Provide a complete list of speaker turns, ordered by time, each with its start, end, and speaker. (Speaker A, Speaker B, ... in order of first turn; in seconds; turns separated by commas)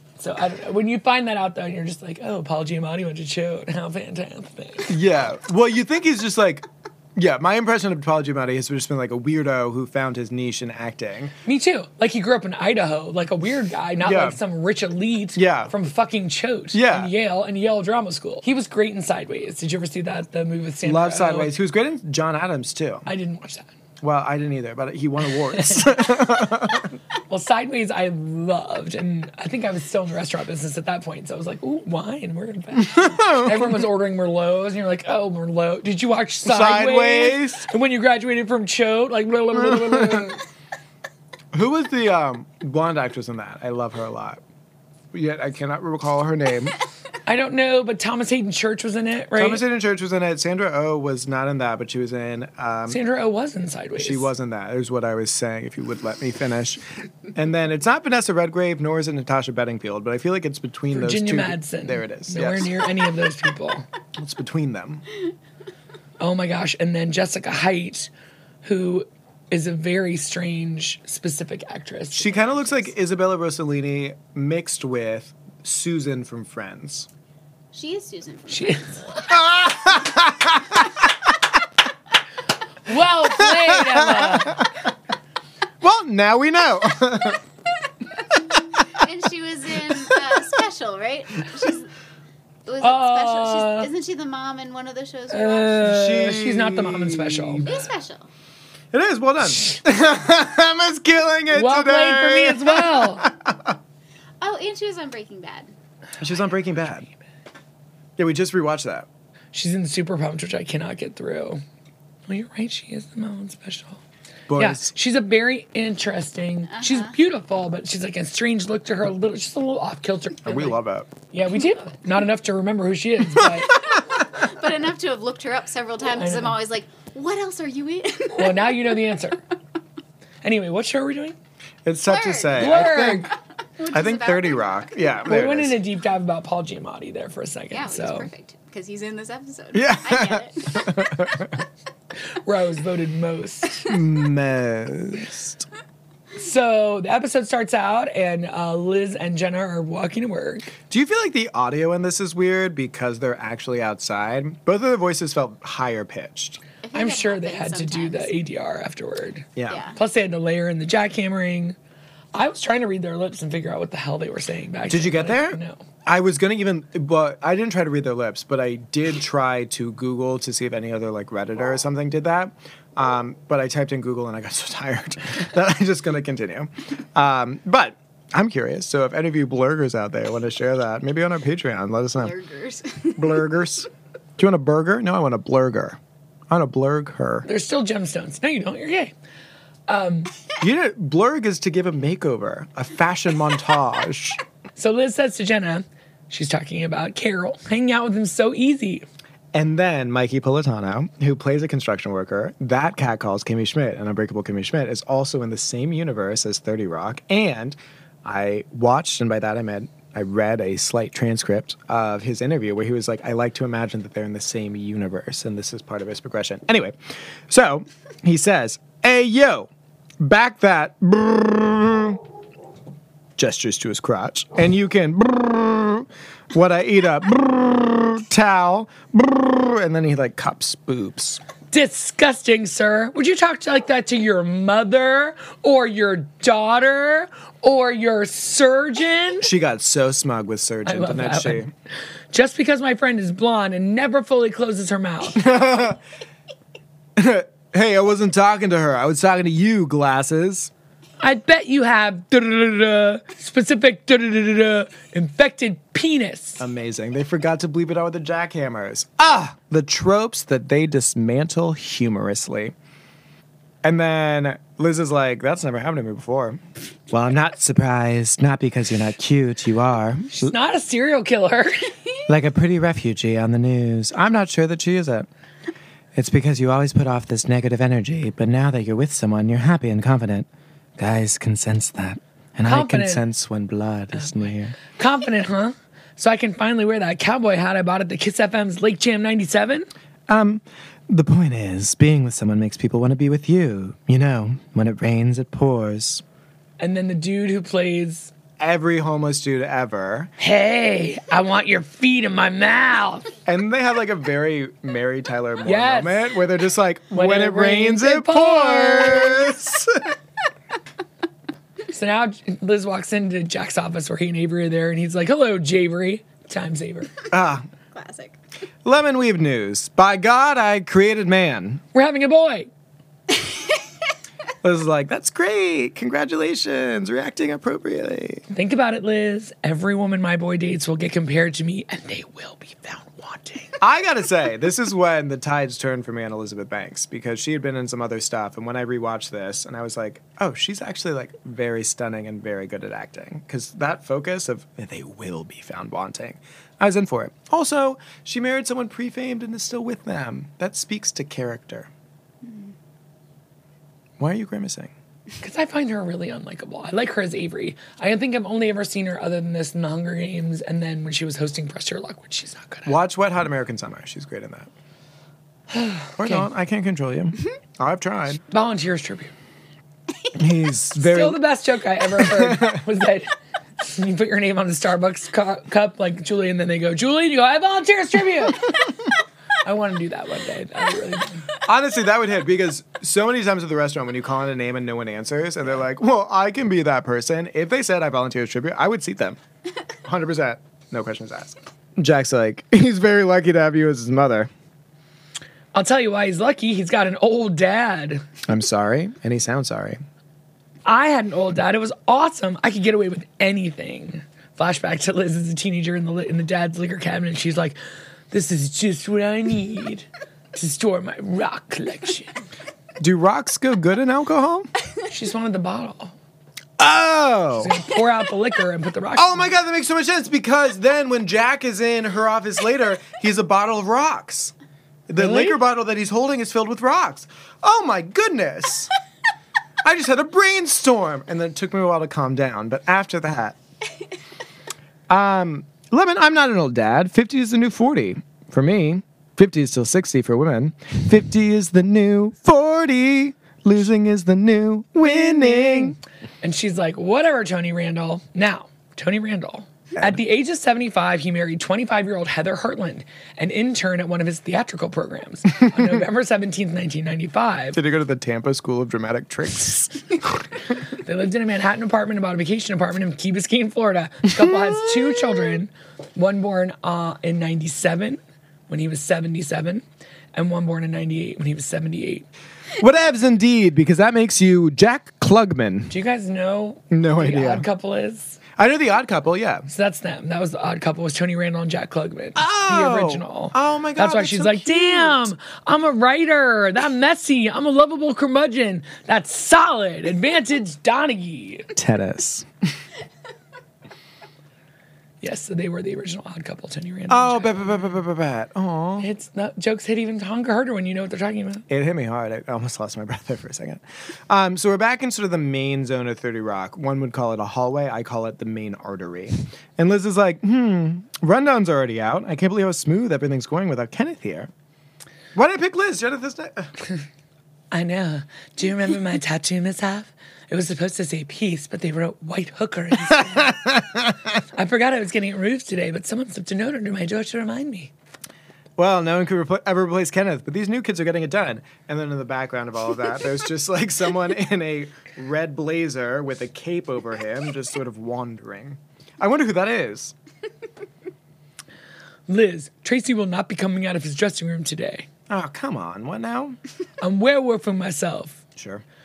Speaker A: 0.2-5.0, Speaker B: 4.9-11.3, Speaker A: 11.4-21.5, Speaker B: 14.0-14.4, Speaker B: 15.4-15.7, Speaker B: 16.7-17.1, Speaker B: 20.8-23.1, Speaker A: 23.1-23.7, Speaker B: 24.0-27.0, Speaker A: 25.5-26.3, Speaker A: 27.3-40.4, Speaker B: 32.8-33.9, Speaker B: 36.4-37.7, Speaker B: 39.6-40.3, Speaker B: 41.5-44.4, Speaker B: 45.1-46.8, Speaker A: 47.3-49.6, Speaker B: 49.4-53.0, Speaker A: 52.9-54.3, Speaker B: 54.0-56.8, Speaker B: 57.3-62.8, Speaker A: 60.9-63.9, Speaker B: 64.2-65.0, Speaker A: 66.2-68.1, Speaker A: 68.6-72.9, Speaker B: 72.1-77.1, Speaker C: 77.7-78.8, Speaker A: 78.5-78.9, Speaker B: 79.2-80.9, Speaker A: 82.9-84.7, Speaker B: 83.3-84.7, Speaker B: 85.8-87.4, Speaker C: 89.0-91.9, Speaker B: 90.1-90.4, Speaker C: 92.7-95.7, Speaker A: 92.8-93.9, Speaker A: 95.3-97.7, Speaker B: 95.7-97.7, Speaker C: 97.6-98.3, Speaker B: 98.9-103.8, Speaker A: 101.5-103.2, Speaker C: 104.4-105.7, Speaker B: 106.2-107.1, Speaker B: 108.2-109.1, Speaker A: 109.5-111.6, Speaker A: 112.3-114.0, Speaker B: 114.5-114.9, Speaker A: 114.6-120.8, Speaker B: 120.4-121.1, Speaker A: 121.3-123.8, Speaker C: 124.6-128.6, Speaker A: 126.2-126.6, Speaker A: 128.3-129.4, Speaker A: 130.4-131.4, Speaker B: 131.8-133.3, Speaker C: 132.1-132.7, Speaker A: 132.6-133.3, Speaker C: 133.8-135.1, Speaker B: 133.9-135.8, Speaker A: 135.3-138.3, Speaker C: 137.7-140.5, Speaker B: 139.7-141.6, Speaker A: 142.4-143.9, Speaker B: 143.8-145.7, Speaker A: 146.4-150.7, Speaker B: 150.9-156.6, Speaker C: 156.8-158.3, Speaker A: 156.9-161.8, Speaker B: 159.6-159.9, Speaker A: 162.3-165.8, Speaker B: 164.9-182.4, Speaker C: 182.4-183.2, Speaker B: 183.2-186.0, Speaker B: 186.5-187.5, Speaker A: 187.5-189.1, Speaker A: 189.9-190.3, Speaker B: 190.6-194.4, Speaker A: 194.8-199.1, Speaker B: 199.5-217.0, Speaker B: 217.5-219.7, Speaker B: 220.2-222.2, Speaker B: 223.4-231.4, Speaker A: 231.7-239.5, Speaker B: 239.4-241.7, Speaker A: 240.9-241.6, Speaker A: 242.3-245.5, Speaker B: 245.3-246.0, Speaker B: 247.2-250.7, Speaker A: 251.2-256.7, Speaker B: 256.6-262.8, Speaker B: 263.8-270.5, Speaker A: 270.3-271.9, Speaker B: 272.3-275.3, Speaker B: 276.1-284.8, Speaker A: 282.6-283.2, Speaker A: 284.1-289.9, Speaker B: 290.3-296.2, Speaker A: 296.8-298.3, Speaker B: 298.6-300.3, Speaker A: 300.4-303.3, Speaker B: 303.5-310.1, Speaker A: 305.6-306.3, Speaker A: 307.1-309.4, Speaker A: 311.9-317.1, Speaker B: 317.3-317.7, Speaker C: 318.0-318.3, Speaker B: 318.9-321.8, Speaker A: 321.9-322.7, Speaker B: 324.6-328.4, Speaker A: 328.5-333.7, Speaker B: 333.8-351.9, Speaker B: 354.2-354.9, Speaker A: 355.4-363.0, Speaker B: 362.9-364.7, Speaker A: 365.7-366.5, Speaker B: 366.2-368.4, Speaker A: 368.5-369.3, Speaker B: 370.3-371.4, Speaker A: 371.0-378.8, Speaker B: 372.2-372.8, Speaker A: 379.6-381.5, Speaker B: 381.6-389.4, Speaker B: 390.0-394.5, Speaker A: 395.7-398.2, Speaker B: 398.5-400.0, Speaker A: 400.9-407.8, Speaker A: 408.3-412.4, Speaker B: 413.0-414.7, Speaker A: 415.1-416.1, Speaker B: 416.8-417.8, Speaker A: 417.6-419.5, Speaker B: 419.2-424.5, Speaker B: 425.1-428.9, Speaker A: 425.2-425.6, Speaker B: 429.8-433.6, Speaker B: 435.1-446.0, Speaker A: 445.0-457.8, Speaker B: 457.7-460.4, Speaker A: 461.0-472.3, Speaker B: 472.8-475.9, Speaker A: 475.9-478.4, Speaker B: 476.9-477.7, Speaker B: 478.6-479.7, Speaker A: 479.7-491.7, Speaker B: 482.4-485.3, Speaker B: 491.8-492.5, Speaker A: 495.2-497.9, Speaker B: 497.1-499.1, Speaker A: 499.0-501.6, Speaker B: 501.7-514.5, Speaker B: 515.4-516.7, Speaker A: 517.7-523.6, Speaker B: 523.1-524.2, Speaker A: 524.5-527.9, Speaker B: 528.8-540.1, Speaker A: 542.3-545.1, Speaker B: 545.3-546.6, Speaker A: 547.0-548.4, Speaker B: 548.6-548.8